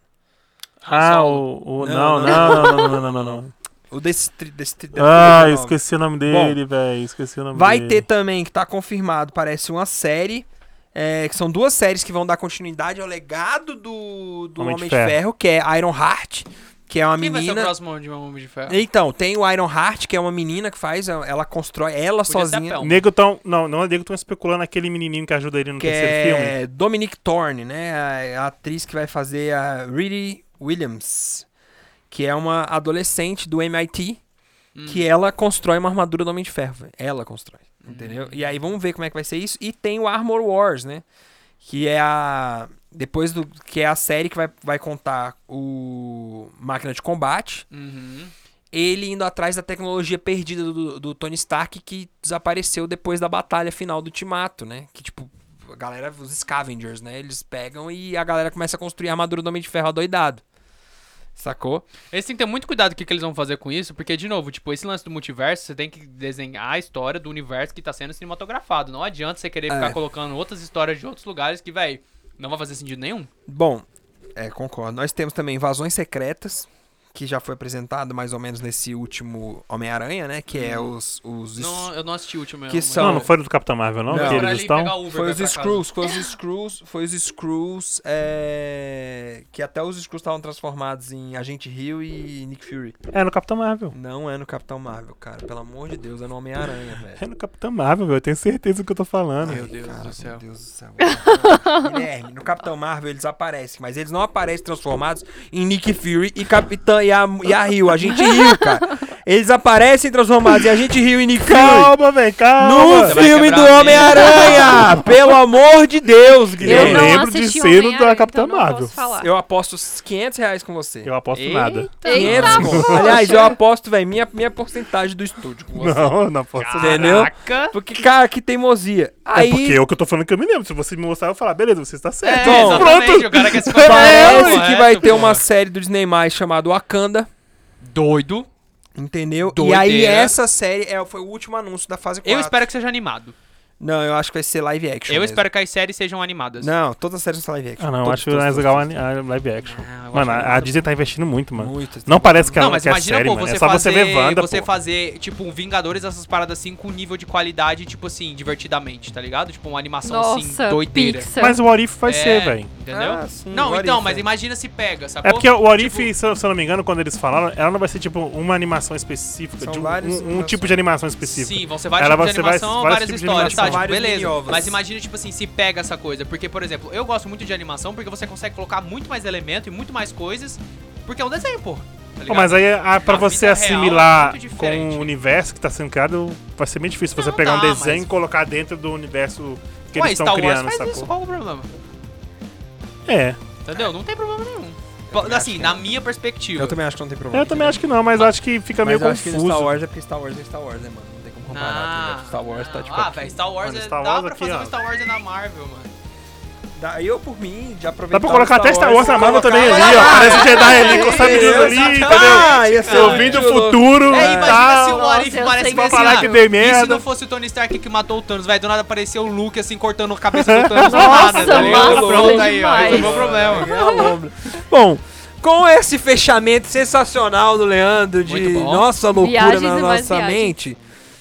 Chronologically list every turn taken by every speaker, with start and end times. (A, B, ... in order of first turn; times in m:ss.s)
0:00.8-0:01.4 A
0:00.8-0:03.5 B
0:01.8-0:06.6 C
0:05.0-0:08.0 B
0:07.5-0:17.7 C
0:14.6-0:15.2 B
0:17.2-0:18.8 A
0:18.6-0:22.9 C
0:22.3-0:23.0 A
0:22.8-0:26.5 B
0:25.8-0:31.5 C
0:32.1-0:34.2 C
0:34.7-0:35.0 A
0:34.8-0:41.0 C
0:37.8-0:38.4 A
0:41.6-0:47.6 C
0:47.7-0:48.3 A
0:48.7-1:00.4 C
1:01.4-1:01.9 C
1:02.1-1:13.3 A
1:09.7-1:10.0 C
1:13.5-1:21.9 C
1:20.5-1:20.9 A
1:21.6-1:23.3 A
1:22.7-1:23.3 C
1:23.0-1:25.0 B
1:24.1-1:33.0 C
1:24.1-1:25.8 A
1:33.1-1:34.0 B
1:33.9-1:37.2 C
1:37.2-1:39.7 B
1:39.4-1:40.4 A
1:39.4-1:51.9 C
1:41.0-1:42.0 D
1:48.1-1:48.7 D
1:51.4-1:53.3 B
1:52.6-1:57.2 C
1:53.0-1:55.0 A
1:53.9-1:55.0 D
1:56.6-1:59.0 B
1:56.6-1:59.3 D
1:59.2-2:01.1 C
2:01.0-2:03.2 B
2:01.3-2:03.4 A
2:02.0-2:03.5 D
2:02.1-2:06.2 C
2:05.8-2:07.3 B
2:06.5-2:07.7 A
2:06.7-2:09.8 C
2:09.4-2:14.6 B
2:12.2-2:15.4 A
2:12.4-2:13.0 C
2:13.7-2:17.3 C
2:17.8-2:18.5 A
2:18.9-2:22.6 C
2:19.5-2:20.4 A
2:22.2-2:23.4 A
2:23.8-2:25.4 C
2:25.1-2:26.7 A
2:26.6-2:28.9 C
2:27.8-2:34.7 B
2:29.6-2:30.8 A
2:31.5-2:32.6 C
2:32.6-2:41.3 A
2:40.0-2:41.6 D
2:41.4-2:42.7 B
2:42.0-2:46.1 A
2:42.9-2:44.2 C
2:45.2-2:53.8 B
2:49.6-2:50.8 C
2:51.2-3:05.1 A
2:53.4-2:54.8 C
3:02.3-3:11.1 B
3:07.1-3:08.0 A
3:10.0-3:11.7 A
3:13.0-3:13.4 B
3:13.6-3:16.8 A
3:15.1-3:15.8 C
3:16.6-3:17.8 C
3:17.3-3:19.8 B
3:18.8-3:23.4 C
3:21.5-3:25.9 A
3:23.6-3:24.7 B
3:26.8-3:34.6 C
3:28.1-3:37.0 B
3:28.9-3:44.1 A
3:30.1-3:31.4 D
3:34.6-3:36.5 D
3:40.3-3:42.0 B
3:40.8-3:44.1 D
3:41.1-3:50.8 C
3:42.9-3:43.5 B
3:48.3-3:48.9 A
3:49.1-3:50.6 D